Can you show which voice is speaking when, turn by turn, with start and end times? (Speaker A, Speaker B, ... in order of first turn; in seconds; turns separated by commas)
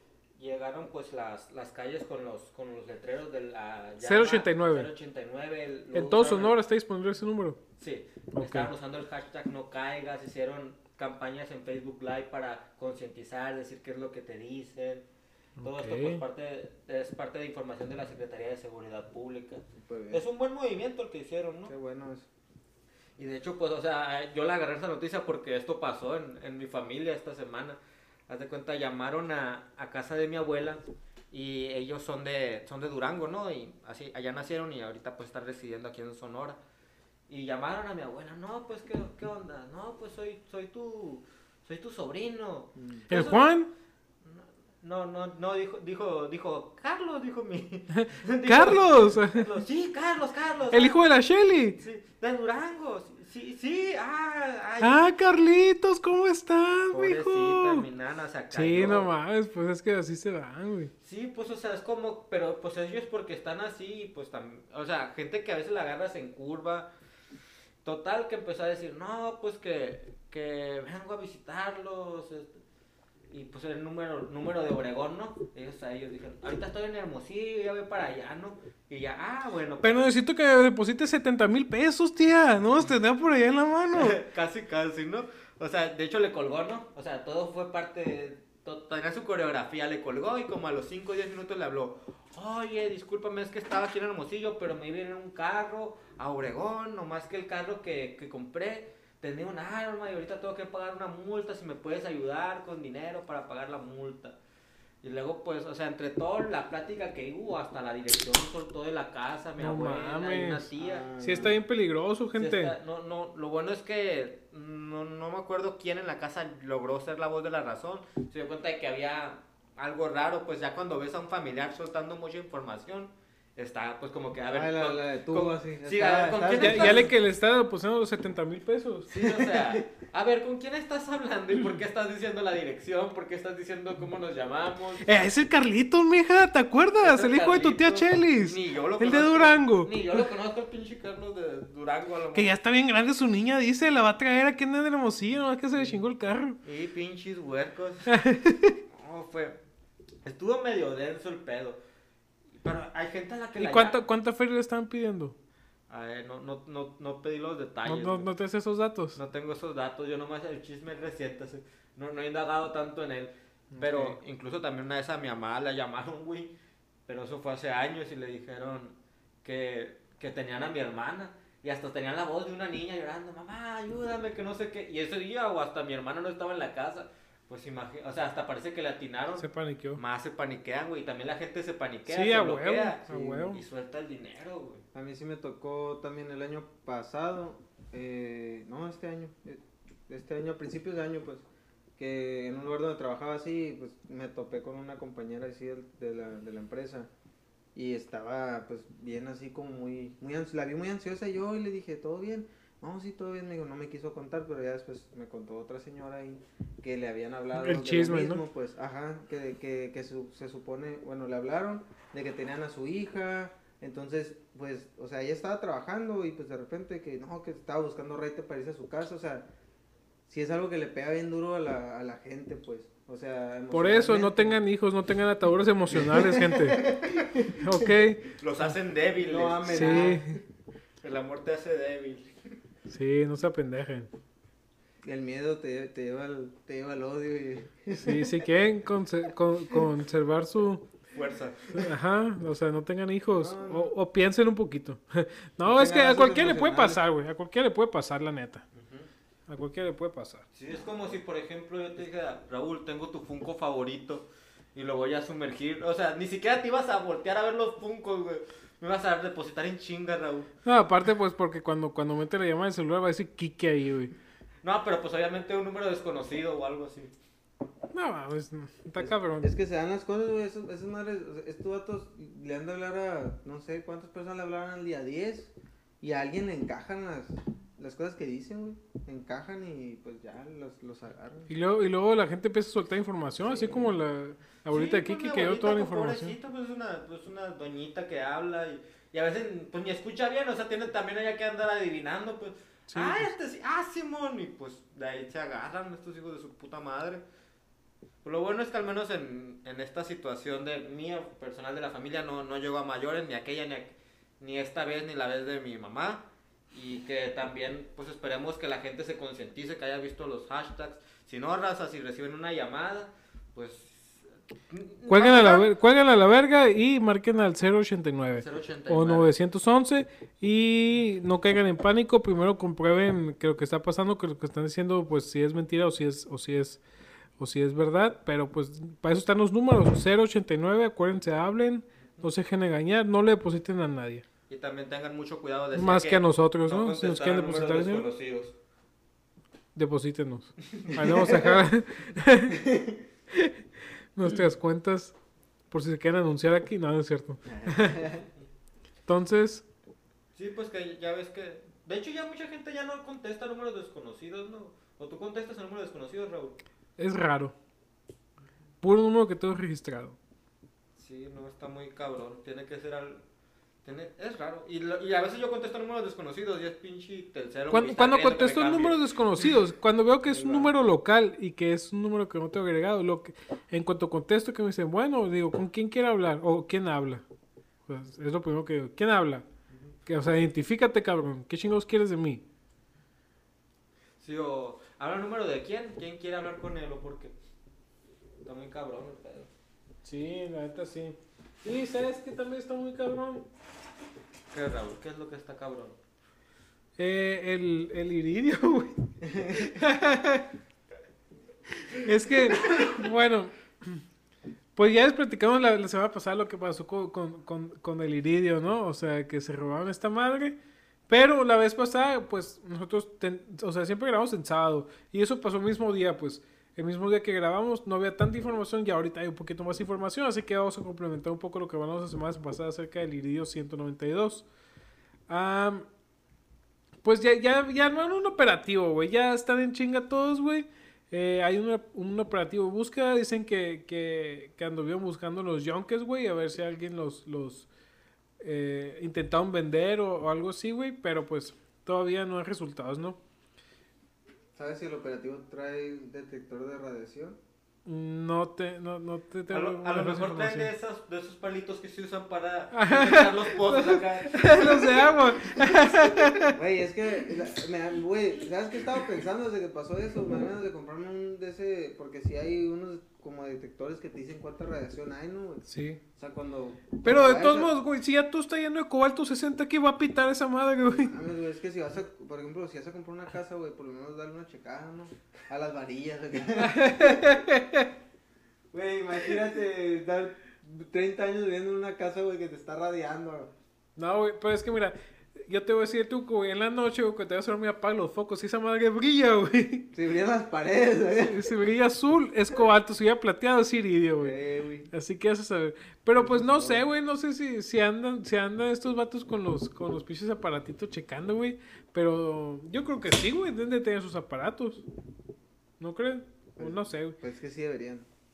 Speaker A: 0.4-6.5, Speaker B: 4.0-4.9, Speaker B: 5.9-7.6, Speaker A: 7.8-15.1, Speaker B: 8.3-8.7, Speaker B: 15.6-16.2, Speaker A: 15.6-21.7, Speaker C: 19.8-20.2, Speaker C: 21.7-22.3, Speaker A: 23.2-36.6, Speaker A: 37.3-43.5, Speaker C: 42.8-43.1, Speaker B: 43.1-43.7, Speaker A: 44.2-51.0, Speaker B: 47.9-49.5, Speaker B: 50.7-51.8, Speaker A: 51.8-55.1, Speaker B: 54.8-57.8, Speaker A: 56.9-59.1, Speaker B: 58.5-60.9, Speaker A: 61.0-66.9, Speaker A: 67.8-72.6, Speaker A: 73.3-80.1, Speaker B: 79.8-84.2, Speaker A: 83.9-104.4, Speaker A: 105.0-111.5, Speaker B: 109.6-110.7, Speaker C: 110.8-111.6, Speaker B: 111.2-112.7, Speaker A: 112.4-127.1, Speaker C: 124.5-127.1, Speaker B: 126.6-129.1, Speaker A: 129.1-135.2, Speaker C: 129.2-129.8, Speaker B: 135.0-139.9, Speaker A: 137.0-142.6, Speaker B: 142.3-146.6, Speaker A: 145.8-146.0, Speaker A: 146.6-148.1, Speaker B: 148.1-148.8, Speaker A: 148.9-149.6, Speaker A: 150.2-151.8, Speaker A: 152.6-154.0, Speaker B: 153.6-155.4, Speaker A: 155.9-158.3, Speaker B: 157.8-159.2, Speaker A: 159.2-166.5, Speaker B: 163.8-164.2, Speaker A: 167.1-179.4, Speaker B: 179.4-180.0, Speaker A: 180.0-184.8, Speaker B: 182.1-183.6, Speaker C: 183.1-183.5, Speaker C: 184.9-191.4, Speaker C: 192.0-197.1, Speaker C: 197.8-219.4, Speaker B: 207.6-208.4, Speaker C: 220.3-224.6, Speaker B: 223.7-226.9, Speaker C: 225.9-227.7, Speaker B: 227.6-228.3, Speaker A: 228.3-230.2, Speaker C: 229.2-230.3, Speaker B: 229.7-230.4, Speaker A: 231.0-232.3, Speaker B: 232.9-234.1, Speaker C: 235.0-238.5, Speaker B: 238.0-240.9, Speaker A: 241.1-241.9, Speaker B: 241.7-248.6, Speaker C: 243.4-243.9, Speaker C: 245.7-247.0, Speaker A: 248.8-249.1, Speaker B: 249.5-250.4, Speaker A: 250.5-260.5, Speaker B: 260.7-264.1, Speaker A: 264.6-267.1, Speaker B: 267.9-269.5, Speaker C: 269.0-281.5, Speaker B: 281.5-286.3, Speaker C: 283.4-283.9, Speaker A: 284.7-297.2, Speaker B: 292.9-293.3, Speaker A: 298.2-315.7, Speaker B: 315.1-326.8, Speaker A: 318.4-319.3, Speaker B: 327.4-334.2, Speaker A: 334.5-338.6, Speaker B: 335.7-338.1, Speaker B: 339.8-342.7, Speaker C: 341.0-341.6, Speaker C: 342.5-343.0, Speaker B: 343.3-343.6, Speaker B: 344.1-345.2, Speaker B: 345.7-348.1, Speaker C: 347.5-348.3, Speaker B: 349.1-349.7, Speaker A: 350.4-356.6, Speaker B: 357.0-357.6, Speaker B: 358.8-360.2, Speaker A: 361.0-363.2, Speaker A: 363.9-369.0, Speaker B: 367.7-377.2, Speaker C: 370.3-370.7, Speaker B: 377.9-379.4, Speaker B: 380.1-382.4, Speaker A: 384.2-387.3, Speaker A: 388.4-389.5, Speaker B: 390.0-393.5, Speaker A: 394.5-396.0, Speaker B: 397.0-400.4, Speaker B: 402.0-404.0, Speaker B: 404.8-410.6, Speaker B: 411.1-424.5, Speaker B: 425.3-425.9, Speaker B: 427.0-437.7, Speaker B: 438.4-443.2, Speaker C: 444.6-447.4, Speaker B: 447.9-450.7, Speaker A: 449.5-455.8, Speaker B: 452.7-456.6, Speaker C: 456.6-465.6, Speaker B: 465.7-466.0, Speaker C: 466.2-467.7, Speaker B: 467.0-471.1, Speaker C: 470.9-477.4, Speaker B: 476.6-477.9, Speaker C: 478.7-483.5, Speaker B: 484.0-489.9, Speaker C: 489.9-491.5, Speaker B: 491.2-494.4, Speaker C: 494.2-494.9, Speaker B: 494.9-504.8, Speaker C: 496.2-496.8, Speaker B: 505.8-507.2, Speaker C: 506.6-508.1